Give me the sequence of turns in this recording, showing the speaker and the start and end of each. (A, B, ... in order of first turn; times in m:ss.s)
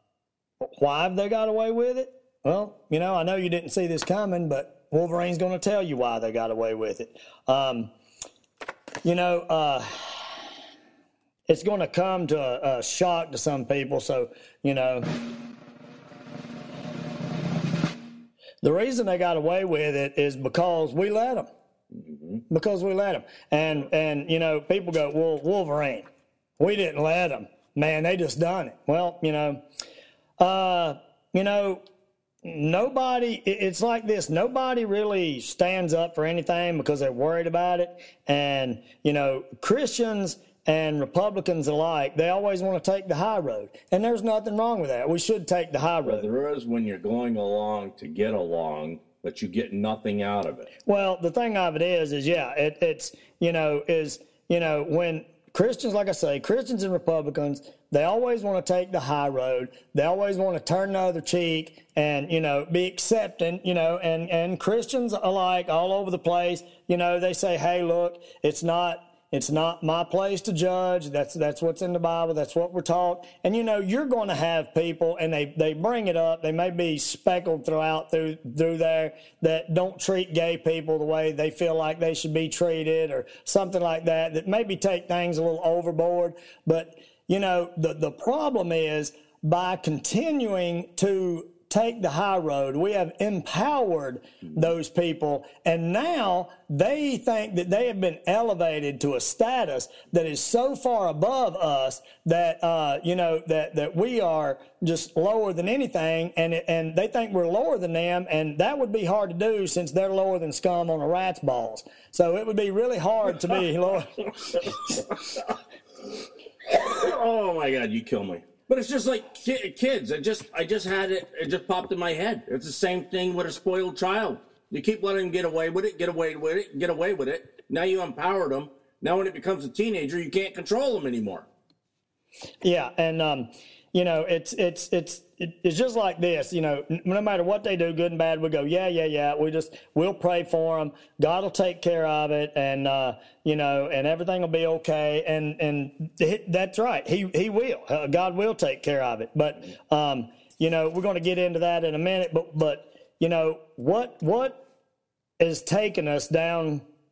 0:00.6-0:07.9 A
0:09.0-0:10.4 A
0:11.5-0:15.1 A
0:18.6-0:21.5 A
0:21.9-0:22.4 B
0:22.5-0:26.1 A
0:26.6-0:29.6 A
0:30.4-0:31.8 A
0:32.4-0:46.3 A
0:46.0-0:50.7 B
0:50.8-1:55.0 A
1:56.6-2:11.5 B
2:12.6-2:34.6 A
2:35.4-2:36.8 A